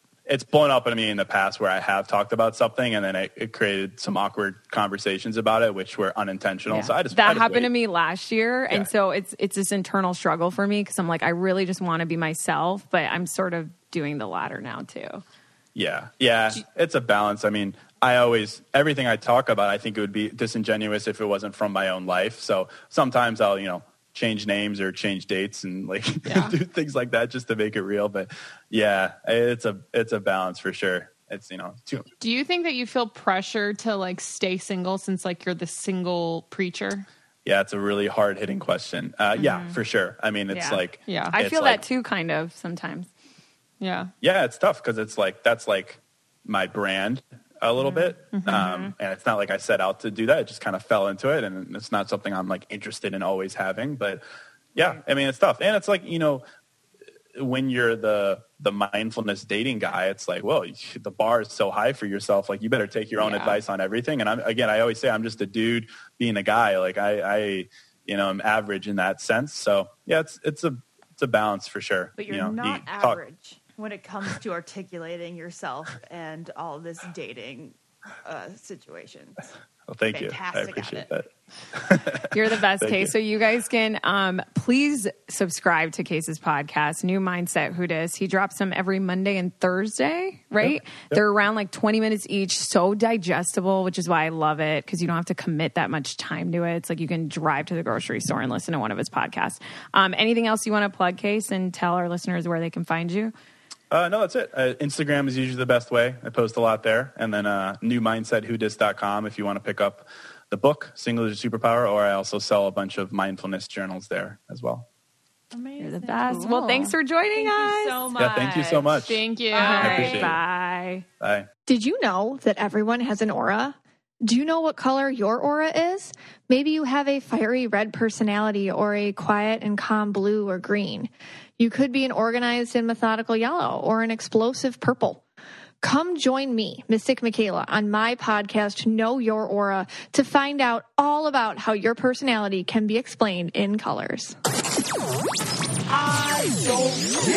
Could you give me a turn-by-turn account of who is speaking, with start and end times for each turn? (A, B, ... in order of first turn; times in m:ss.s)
0:00.3-0:07.7 A
0:06.7-0:15.2 B
0:15.8-0:32.1 A
0:26.3-0:26.5 C
0:32.2-0:37.1 C
0:37.4-0:41.8 A
0:39.4-0:39.8 B
0:40.5-0:43.1 B
0:41.1-0:41.4 C
0:43.8-0:44.1 C
0:44.2-0:54.2 A
0:47.9-0:48.9 B
0:48.3-0:48.7 C
0:54.8-0:56.4 A
0:57.3-1:13.2 A
1:03.2-1:03.6 C
1:12.2-1:19.5 D
1:19.9-1:23.1 A
1:20.1-1:21.1 D
1:22.3-1:43.3 B
1:30.6-1:31.2 A
1:43.9-1:54.9 A
1:55.5-1:56.5 D
1:55.8-1:58.0 B
1:56.3-1:56.9 C
1:57.3-1:59.0 D
1:58.2-2:00.4 A
1:59.0-2:00.0 C
1:59.5-2:00.3 D
1:59.6-2:01.0 B
2:01.2-2:01.5 A
2:01.7-2:15.2 E
2:15.8-2:24.4 E
2:26.2-2:26.9 E